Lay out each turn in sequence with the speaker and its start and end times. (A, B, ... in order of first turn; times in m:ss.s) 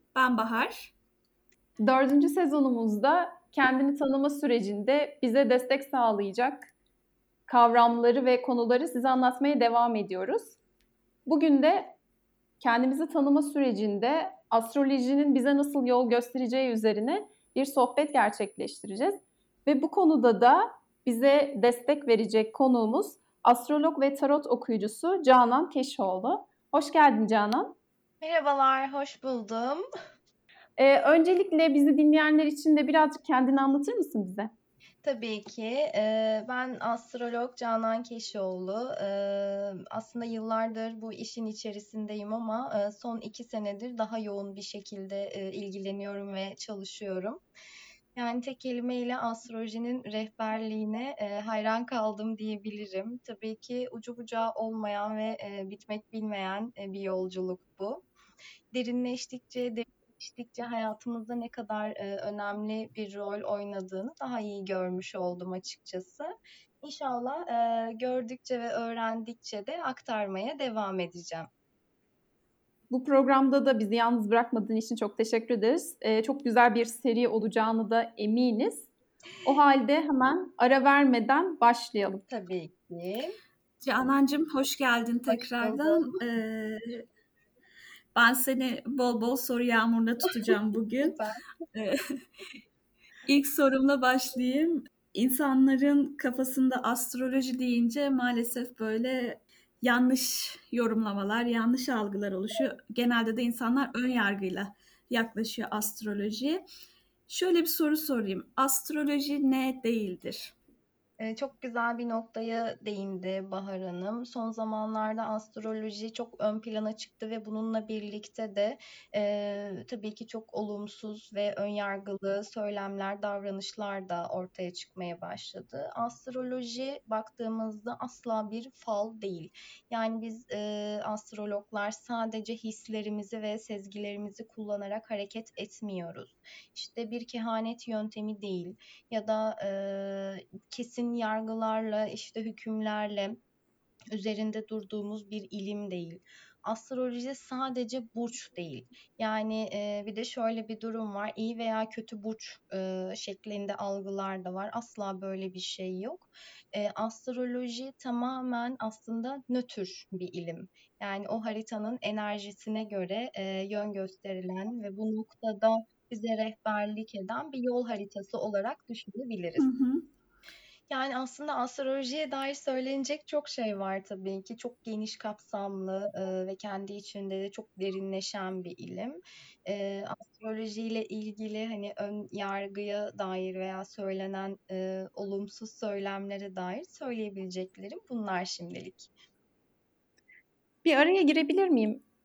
0:00.1-0:00.9 A
0:01.8-0:06.7 B
0:07.5-0:10.6 B
0:11.2-0:12.0 B
0:12.6-0:27.8 B
0:28.2-0:29.8 C
0:30.8-0:34.5 B
0:35.0-0:47.4 C
0:48.2-0:58.0 C
0:58.7-1:11.5 C
1:12.9-1:18.9 B
1:19.4-1:22.2 B
1:22.3-1:23.3 C
1:23.8-1:27.0 A
1:25.3-1:26.2 C
1:28.1-1:31.2 A
1:31.0-1:31.4 C
1:31.7-1:32.2 A
1:33.2-1:46.6 A
1:47.3-1:50.5 A
1:51.2-2:23.4 C
2:24.1-2:49.7 C
2:49.6-2:50.1 A
2:50.9-3:09.1 C
3:10.8-3:12.0 B